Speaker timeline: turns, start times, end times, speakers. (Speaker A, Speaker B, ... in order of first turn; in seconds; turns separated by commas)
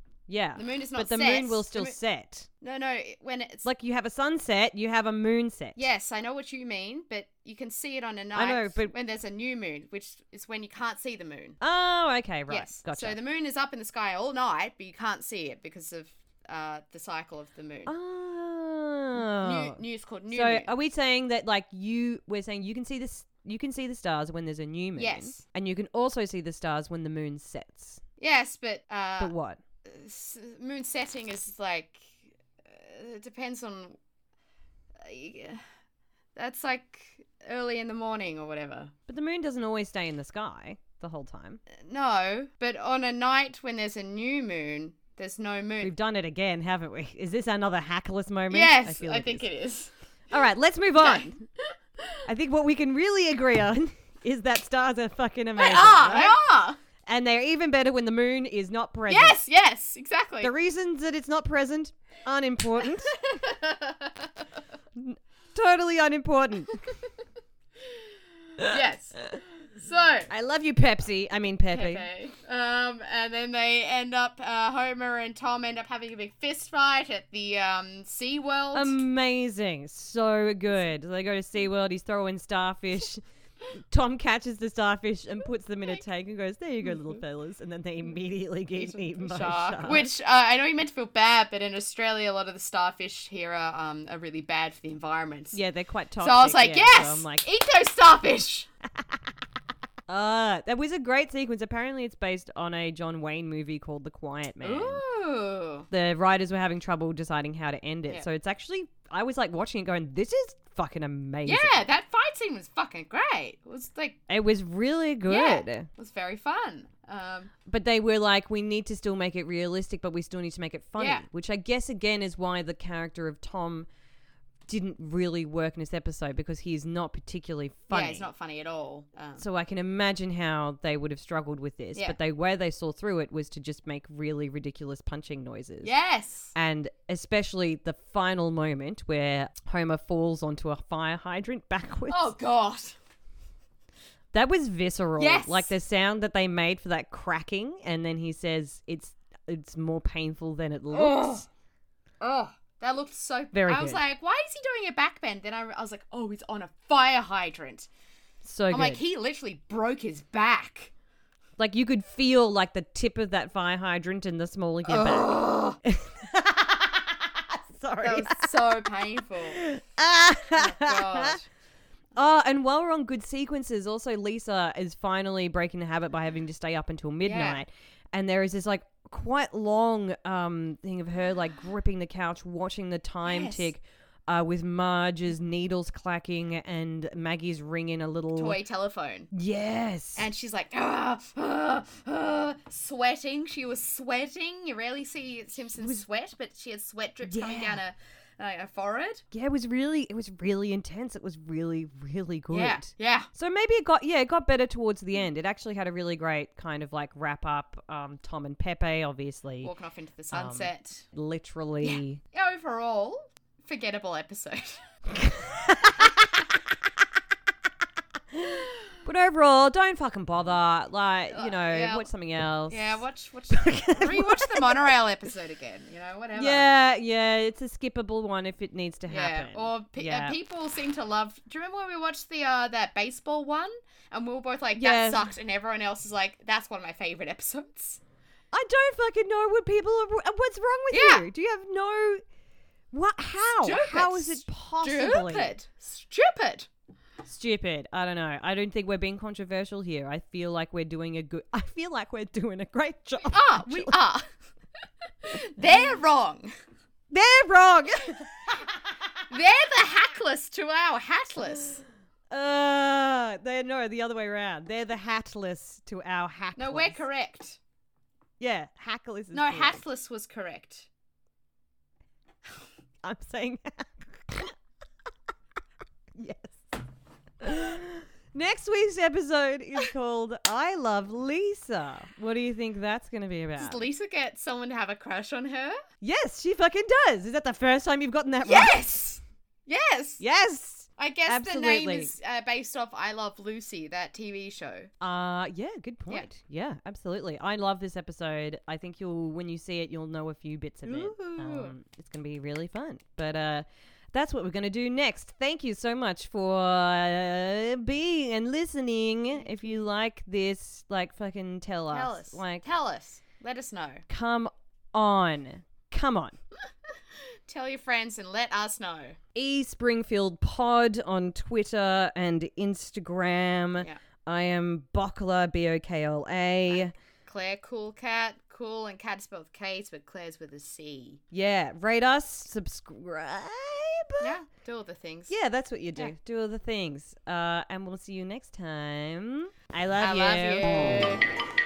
Speaker A: 0.3-2.5, Speaker B: 0.6-2.0, Speaker B: 2.6-3.6, Speaker A: 3.6-5.8, Speaker B: 5.8-11.6, Speaker A: 8.3-8.9, Speaker A: 11.6-13.2, Speaker B: 12.5-17.9, Speaker A: 17.9-28.0, Speaker B: 19.2-20.7, Speaker B: 24.9-25.4, Speaker B: 28.2-29.3, Speaker A: 29.2-29.6, Speaker B: 29.8-34.0, Speaker B: 35.0-35.6, Speaker B: 36.4-38.9, Speaker A: 39.1-41.6, Speaker B: 41.7-45.9, Speaker A: 45.8-49.4, Speaker B: 48.5-49.9, Speaker A: 50.3-51.4, Speaker B: 51.0-51.3, Speaker A: 52.2-56.4, Speaker B: 55.6-56.8, Speaker A: 57.0-59.4, Speaker B: 59.1-60.5, Speaker A: 60.4-63.3, Speaker B: 62.8-64.4, Speaker A: 64.9-66.9, Speaker B: 68.6-70.3, Speaker A: 70.3-72.0, Speaker B: 71.7-78.9, Speaker A: 78.7-83.2, Speaker A: 83.9-90.0, Speaker B: 88.7-95.6, Speaker A: 95.5-97.5, Speaker B: 96.2-98.7, Speaker A: 100.1-105.0, Speaker B: 104.6-105.9, Speaker A: 105.9-111.8, Speaker B: 111.4-114.2, Speaker A: 114.3-115.9, Speaker B: 115.3-117.5, Speaker A: 117.7-123.9, Speaker B: 121.0-121.2, Speaker A: 124.7-128.3, Speaker B: 127.9-129.4, Speaker A: 129.4-135.9, Speaker B: 135.8-136.5, Speaker A: 136.5-142.3, Speaker B: 142.1-143.0, Speaker A: 144.3-151.4, Speaker B: 145.2-145.7, Speaker B: 150.9-151.5, Speaker B: 152.2-157.9, Speaker A: 153.5-154.0, Speaker A: 158.4-159.0, Speaker B: 158.7-160.9, Speaker A: 161.6-168.9, Speaker B: 164.9-165.8, Speaker B: 168.0-169.7, Speaker A: 169.5-171.4, Speaker B: 170.5-171.4, Speaker A: 172.1-188.6, Speaker B: 177.2-177.6, Speaker B: 183.2-183.7, Speaker B: 188.3-189.3, Speaker A: 189.3-190.3, Speaker B: 190.2-199.2, Speaker A: 197.2-197.8, Speaker A: 199.3-209.7, Speaker B: 202.5-203.3, Speaker B: 209.6-211.1, Speaker A: 210.3-212.2, Speaker B: 211.8-214.8, Speaker A: 215.1-216.4, Speaker A: 218.3-224.9, Speaker B: 221.3-222.1, Speaker B: 222.7-226.7, Speaker A: 226.3-230.3, Speaker B: 229.1-238.0, Speaker A: 234.8-235.3, Speaker A: 238.5-242.2, Speaker B: 240.9-241.2, Speaker A: 242.9-245.5, Speaker B: 243.6-246.7, Speaker A: 247.2-254.0, Speaker B: 253.3-254.2, Speaker B: 255.2-256.5, Speaker A: 257.1-258.7, Speaker B: 259.3-261.8, Speaker A: 262.3-267.0, Speaker B: 266.6-267.6, Speaker A: 268.4-269.8, Speaker B: 269.3-270.9, Speaker A: 273.0-274.5, Speaker A: 276.1-276.7, Speaker A: 277.4-283.8, Speaker B: 283.6-285.8, Speaker A: 286.0-288.8, Speaker B: 288.4-290.2, Speaker A: 290.2-292.1, Speaker B: 291.0-294.9, Speaker A: 295.0-312.6, Speaker B: 300.9-301.7, Speaker B: 309.3-309.8, Speaker B: 311.9-314.0, Speaker A: 314.1-316.4, Speaker B: 317.5-319.2, Speaker A: 319.3-326.9, Speaker B: 326.7-331.2, Speaker A: 331.3-334.3, Speaker B: 334.2-335.4, Speaker A: 335.3-341.1, Speaker B: 340.0-341.2